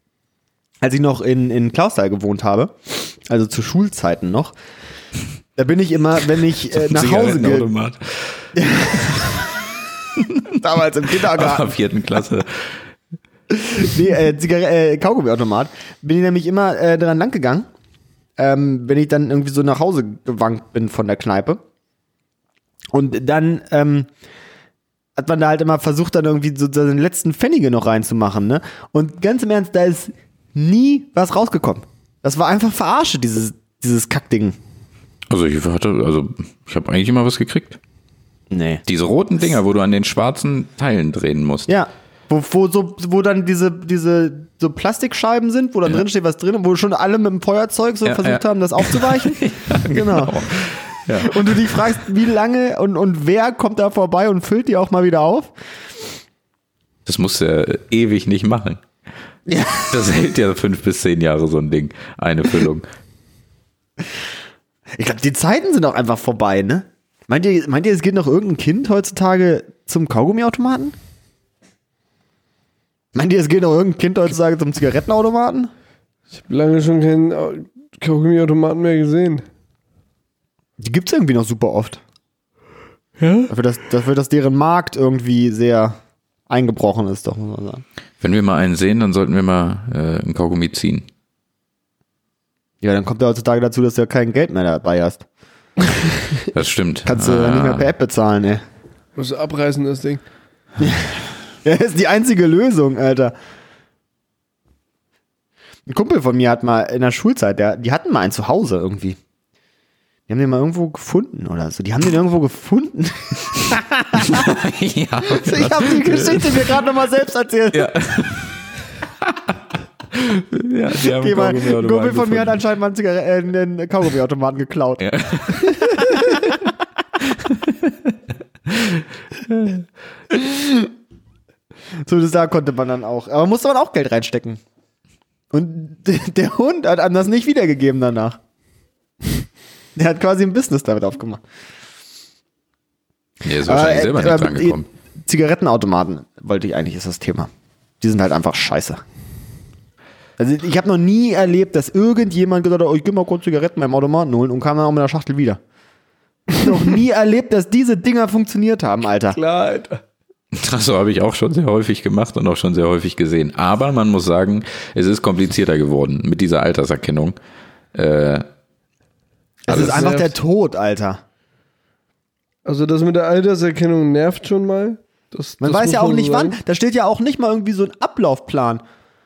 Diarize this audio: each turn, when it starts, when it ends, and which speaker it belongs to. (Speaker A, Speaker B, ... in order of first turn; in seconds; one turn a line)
Speaker A: 0.8-4.5
Speaker A: 5.6-7.7
Speaker B: 6.7-9.3
Speaker A: 8.6-9.3
Speaker B: 10.2-10.6
Speaker A: 10.6-11.8
Speaker B: 11.1-12.8
Speaker A: 13.5-17.7
Speaker A: 18.4-21.6
Speaker A: 22.9-24.1
Speaker A: 25.2-34.6
Speaker B: 35.3-37.8
Speaker A: 38.5-38.8
Speaker B: 38.9-41.7
Speaker A: 41.7-55.5
Speaker B: 48.0-51.9
Speaker B: 57.1-58.8
Speaker A: 59.5-60.0
Speaker B: 59.9-62.9
Speaker A: 65.0-71.0
Speaker A: 73.2-75.7
Speaker C: 76.3-79.5
Speaker A: 80.8-82.0
Speaker C: 83.2-83.5
Speaker A: 83.5-86.0
Speaker A: 86.5-87.8
Speaker B: 88.2-91.1
Speaker A: 92.8-95.2
Speaker B: 96.5-97.9
Speaker A: 97.1-98.6
Speaker C: 99.2-100.2
Speaker A: 100.8-101.1
Speaker A: 101.6-103.3
Speaker A: 105.9-109.2
Speaker A: 110.3-114.5
Speaker B: 114.2-116.8
Speaker A: 115.3-117.9
Speaker B: 117.7-118.6
Speaker B: 119.2-119.6
Speaker B: 120.1-122.6
Speaker A: 121.0-125.0
Speaker B: 125.0-126.5
Speaker A: 125.6-126.5
Speaker B: 127.4-128.1
Speaker B: 128.7-129.8
Speaker A: 130.3-130.9
Speaker A: 132.1-134.6
Speaker A: 135.5-138.4
Speaker A: 140.0-141.4
Speaker B: 143.4-144.9
Speaker A: 143.6-147.5
Speaker A: 148.0-149.0
Speaker A: 150.4-155.6
Speaker A: 156.6-159.4
Speaker C: 159.3-160.0
Speaker B: 160.5-167.4
Speaker B: 167.9-168.4
Speaker A: 169.7-171.2
Speaker C: 169.7-170.3
Speaker C: 172.7-176.6
Speaker A: 175.6-178.8